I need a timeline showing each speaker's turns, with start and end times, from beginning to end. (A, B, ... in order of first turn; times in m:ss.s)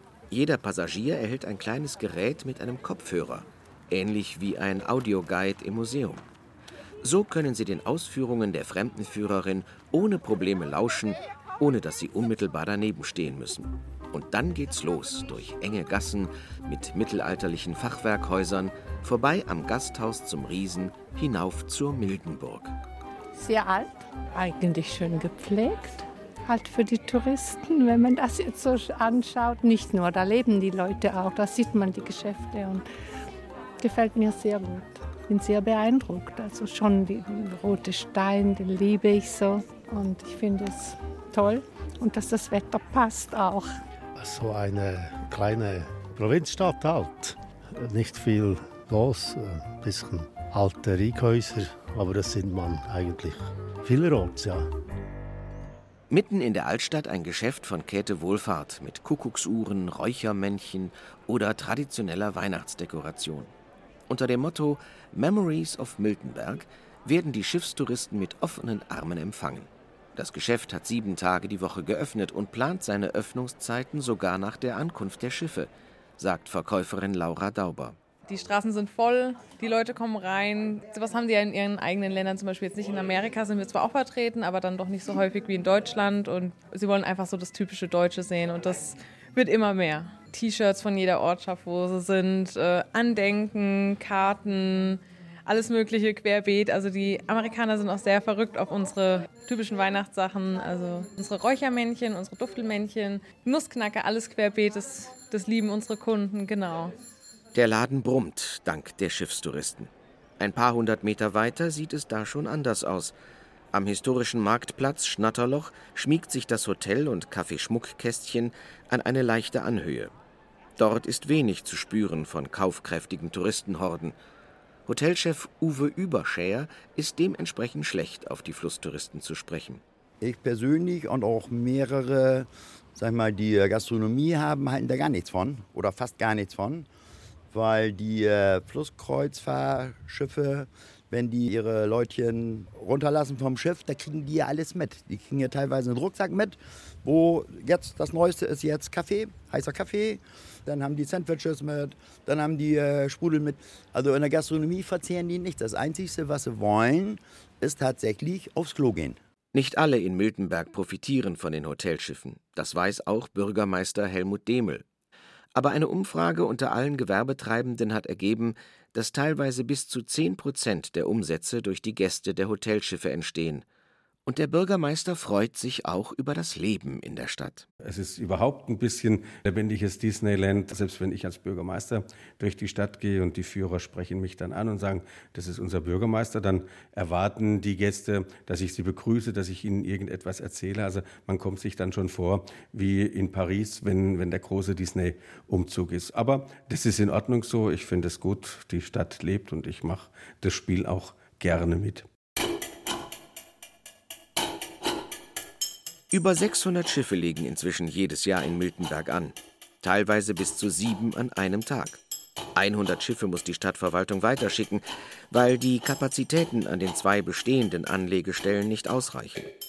0:00.3-0:06.2 A
0:07.0-0:22.7 A
0:23.4-0:32.8 B
0:33.8-0:43.8 B
0:44.2-0:54.7 C
0:56.1-1:03.5 A
1:04.1-1:18.0 A
1:18.3-1:46.9 D
1:47.5-1:53.1 A
1:53.7-2:00.1 A
2:00.8-2:04.2 A
2:04.9-2:09.8 A
2:10.2-2:16.9 E
2:17.5-2:39.2 E
2:39.5-2:44.8 A
2:45.5-2:53.6 A
2:54.2-2:57.7 A
2:57.8-3:22.0 F
3:26.1-3:32.0 A
3:32.5-3:39.5 A